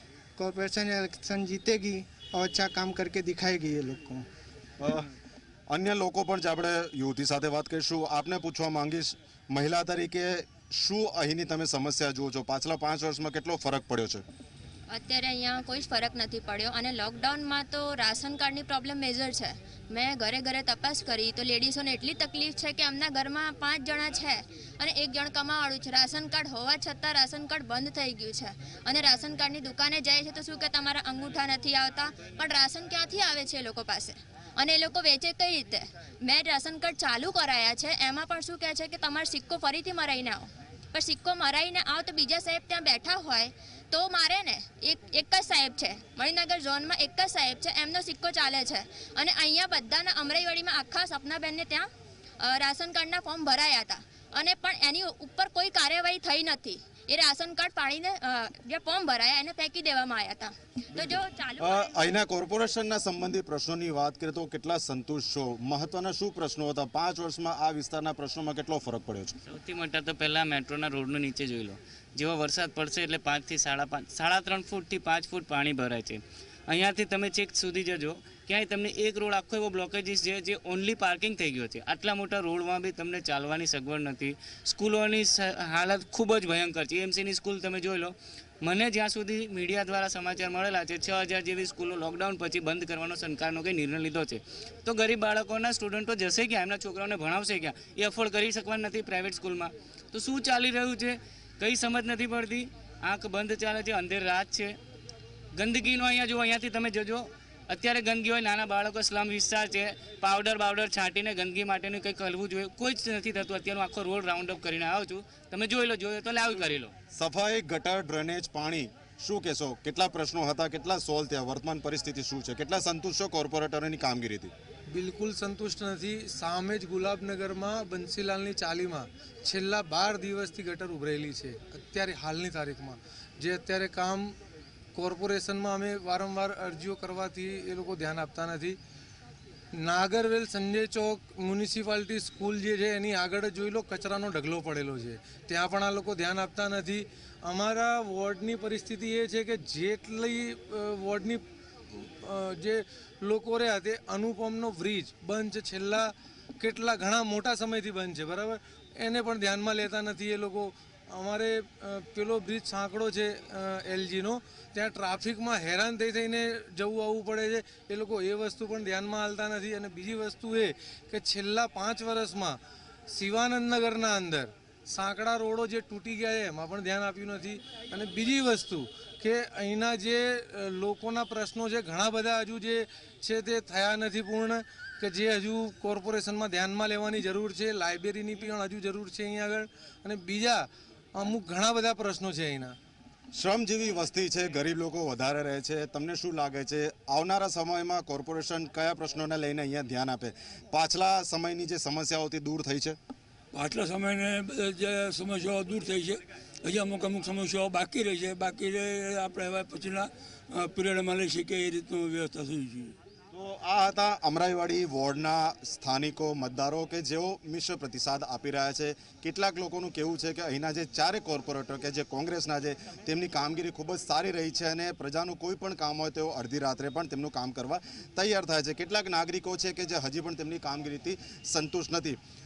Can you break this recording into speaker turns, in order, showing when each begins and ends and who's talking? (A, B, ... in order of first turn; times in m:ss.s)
0:00.4-0:04.2 A
0:04.8-0:05.1 B
0:05.7-0:14.2 B
0:14.9-0:51.9 C
0:52.4-1:02.2 C
1:00.9-1:09.3 B
1:09.5-1:44.8 D
1:45.5-1:56.9 D
1:57.1-2:04.5 B
2:04.9-2:14.3 E
2:14.9-2:18.8 E
2:19.8-2:52.6 E
2:53.1-3:10.6 E
3:11.2-3:12.8 E
3:13.3-3:23.0 B
3:23.5-3:32.9 F
3:33.3-3:52.2 B